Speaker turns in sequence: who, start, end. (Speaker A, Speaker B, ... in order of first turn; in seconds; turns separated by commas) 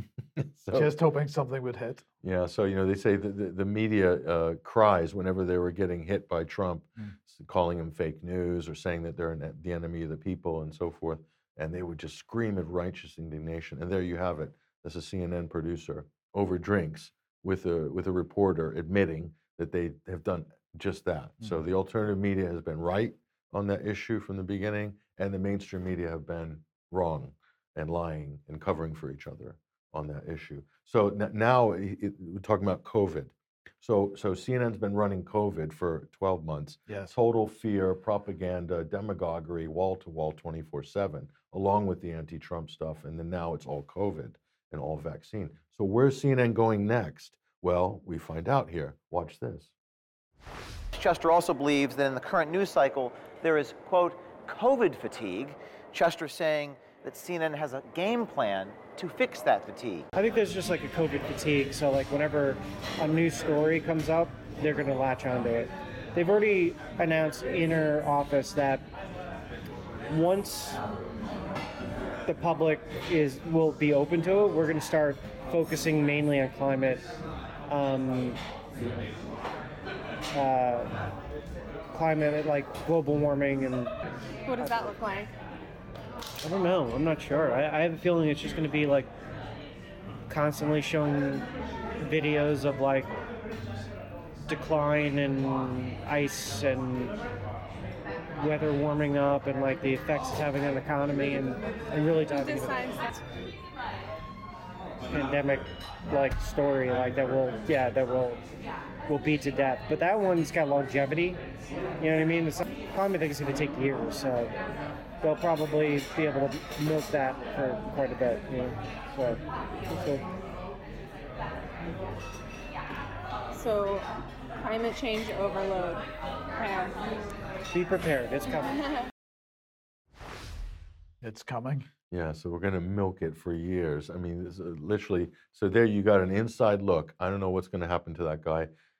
Speaker A: 0.4-0.9, Speaker B: 0.7-2.0, Speaker A: 2.2-49.7, Speaker B: 21.4-21.6, Speaker B: 36.9-37.1, Speaker C: 50.9-60.1, Speaker D: 60.1-68.8, Speaker D: 70.1-70.8, Speaker D: 72.2-77.1, Speaker D: 77.7-78.4, Speaker D: 80.3-80.9, Speaker D: 81.9-83.9, Speaker E: 84.5-85.3, Speaker D: 84.6-84.9, Speaker D: 86.4-89.1, Speaker D: 90.3-91.5, Speaker D: 92.0-93.1, Speaker D: 94.5-97.2, Speaker D: 98.4-103.1, Speaker E: 102.3-103.1, Speaker D: 105.1-108.4, Speaker D: 109.1-111.4, Speaker D: 112.0-114.5, Speaker D: 115.2-120.2, Speaker E: 123.5-124.0, Speaker E: 124.6-126.0, Speaker E: 126.5-126.9, Speaker D: 127.7-128.7, Speaker B: 131.2-131.9, Speaker A: 132.1-138.7